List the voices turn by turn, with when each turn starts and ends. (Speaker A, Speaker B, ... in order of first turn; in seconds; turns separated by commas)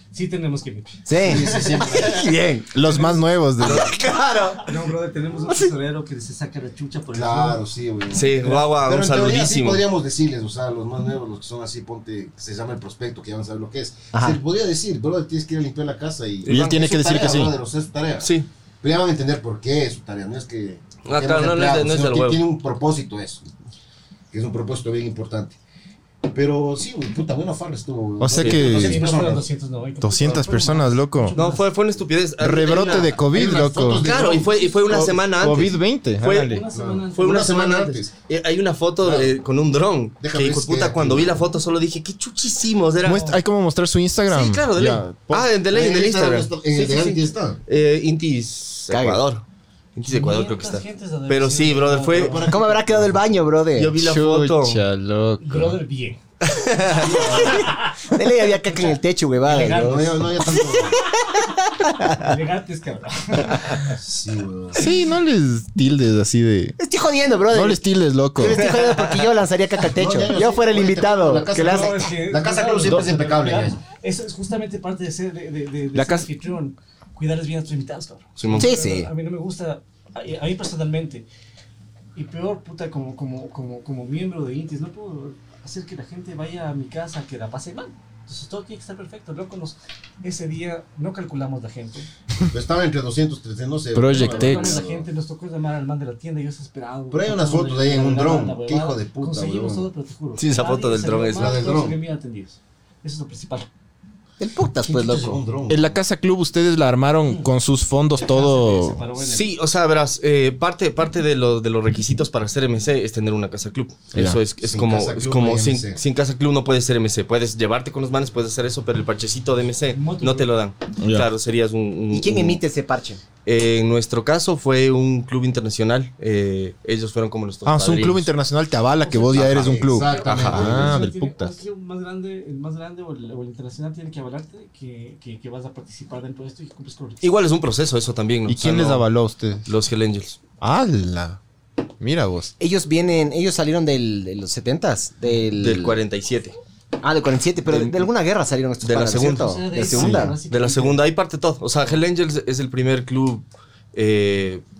Speaker A: 0.1-2.1, Speaker B: 1.1-2.7, Speaker C: 1.1-2.3, Speaker D: 2.7-3.9, Speaker A: 2.8-3.2, Speaker B: 3.6-4.9, Speaker E: 3.6-3.9, Speaker A: 4.7-7.6, Speaker C: 7.1-18.3, Speaker E: 8.1-9.8, Speaker B: 14.1-14.4, Speaker E: 16.4-16.7, Speaker D: 16.5-17.5, Speaker E: 18.2-18.5, Speaker C: 18.8-23.4, Speaker E: 21.0-22.4, Speaker C: 24.3-25.6, Speaker C: 26.3-29.5, Speaker D: 28.2-29.1, Speaker E: 28.4-28.7, Speaker A: 28.6-31.7, Speaker D: 30.0-31.4, Speaker E: 31.4-33.2, Speaker D: 32.4-34.1, Speaker C: 33.3-34.8, Speaker E: 34.0-36.6, Speaker D: 34.9-36.7, Speaker A: 36.4-38.0, Speaker C: 36.7-38.1, Speaker E: 37.1-43.3, Speaker C: 39.0-39.3, Speaker C: 40.2-41.5, Speaker D: 43.0-45.5, Speaker A: 43.1-43.4, Speaker E: 44.3-49.4, Speaker C: 45.7-47.6, Speaker B: 48.9-49.2, Speaker E: 50.0-52.5, Speaker A: 50.0-52.6, Speaker C: 52.1-53.3, Speaker B: 52.4-53.9, Speaker E: 53.8-54.8, Speaker D: 54.0-55.8, Speaker A: 55.4-56.2, Speaker E: 56.4-57.1, Speaker C: 57.0-57.6, Speaker A: 57.1-58.1, Speaker B: 57.2-62.3, Speaker A: 58.7-60.2, Speaker C: 59.7-61.0, Speaker A: 62.2-64.0, Speaker C: 64.0-64.9, Speaker D: 64.8-66.8, Speaker B: 66.8-67.8, Speaker D: 67.5-68.7, Speaker B: 68.3-72.0, Speaker E: 68.6-69.2, Speaker C: 69.8-73.8, Speaker A: 71.5-81.2, Speaker D: 75.9-76.3, Speaker E: 78.4-78.7, Speaker B: 78.5-79.1, Speaker A: 82.2-92.1, Speaker C: 92.5-95.0, Speaker D: 93.9-94.8, Speaker A: 94.1-103.7, Speaker C: 97.1-99.9, Speaker E: 100.4-101.7, Speaker C: 101.4-102.0, Speaker B: 104.4-105.4, Speaker C: 104.8-106.0, Speaker D: 105.7-109.0, Speaker A: 108.2-109.5, Speaker E: 109.2-122.6, Speaker D: 114.2-114.4, Speaker C: 114.6-116.0, Speaker A: 119.9-120.5, Speaker D: 121.0-121.3, Speaker B: 122.1-123.2, Speaker E: 123.4-128.3, Speaker D: 127.7-131.6, Speaker A: 129.1-137.3, Speaker C: 129.1-131.0, Speaker E: 130.2-130.8, Speaker E: 137.2-139.1, Speaker D: 138.5-139.7, Speaker E: 139.7-140.4, Speaker D: 140.6-141.4, Speaker D: 142.0-142.5, Speaker B: 142.6-145.9, Speaker E: 145.6-146.6, Speaker B: 147.0-150.4, Speaker E: 147.7-148.1, Speaker E: 148.8-154.6, Speaker A: 149.3-151.0